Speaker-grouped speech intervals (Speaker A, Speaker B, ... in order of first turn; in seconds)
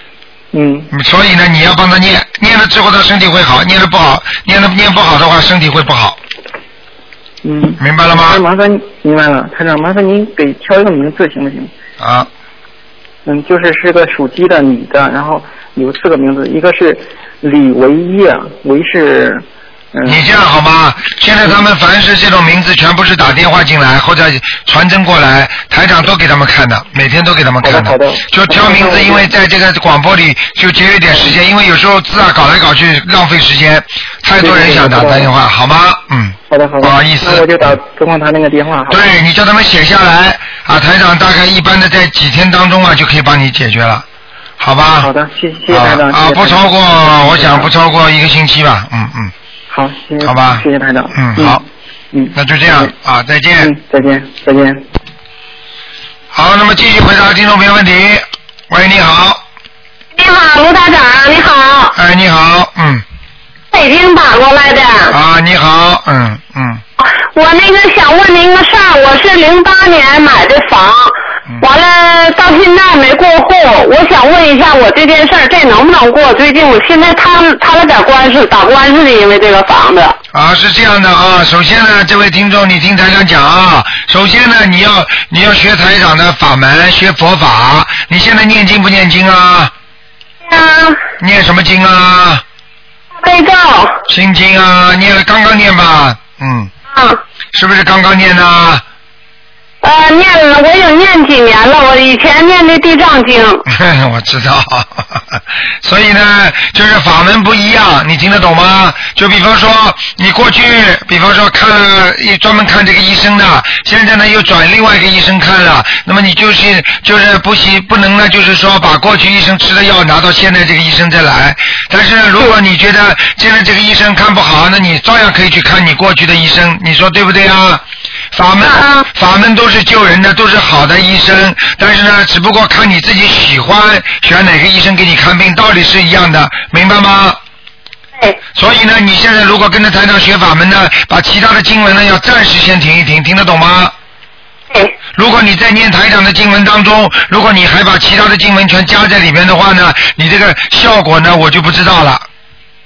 Speaker A: 0.5-0.9, 7.4-11.7, 13.2-20.2, 27.6-29.3, 34.4-35.3, 36.5-39.1, 45.0-47.7, 49.7-51.6, 52.1-52.9, 53.6-54.8
Speaker B: 0.9-6.2, 7.8-8.4, 12.0-12.3, 20.1-37.5, 38.9-44.0, 44.6-45.1, 45.7-49.3, 50.2-51.6, 52.3-53.7, 56.3-59.4, 62.0-63.0, 65.1-66.8, 80.3-89.7, 91.2-92.4, 94.1-96.7, 97.5-98.8, 103.7-137.4, 138.6-143.9, 145.2-152.2
Speaker C: 60.2-62.0, 63.7-65.2, 67.0-80.2, 90.5-91.0, 93.2-94.0, 96.9-97.2, 99.8-103.7, 128.6-129.1